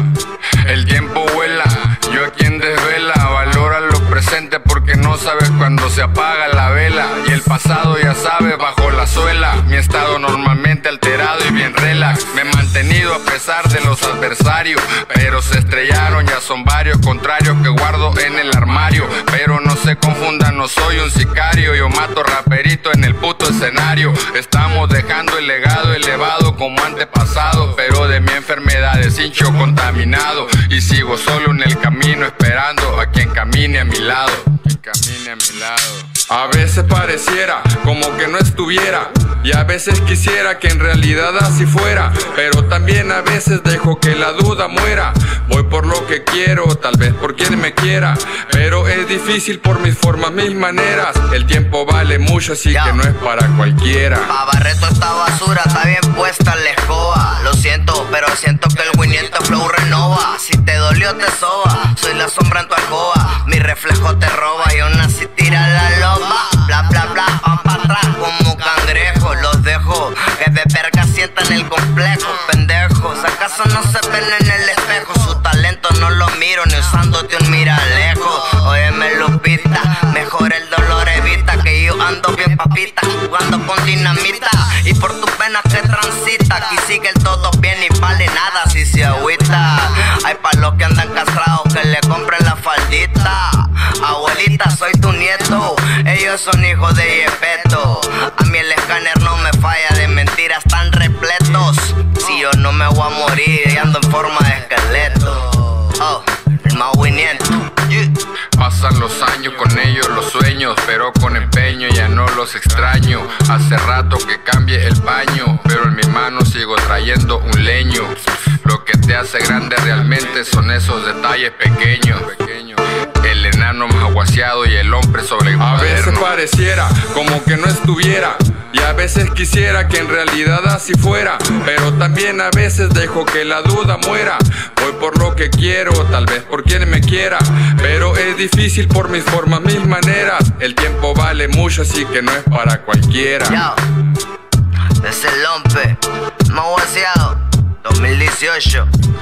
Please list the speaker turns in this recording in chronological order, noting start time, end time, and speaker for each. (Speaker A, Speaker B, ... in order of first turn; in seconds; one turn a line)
Speaker A: 0.6-36.1
Speaker B: 36.3-54.3
Speaker C: 52.7-53.0
Speaker C: 54.3-108.2
Speaker A: 108.5-126.3
Speaker B: 125.6-143.6
Speaker C: 143.5-143.8
Speaker C: 145.0-148.9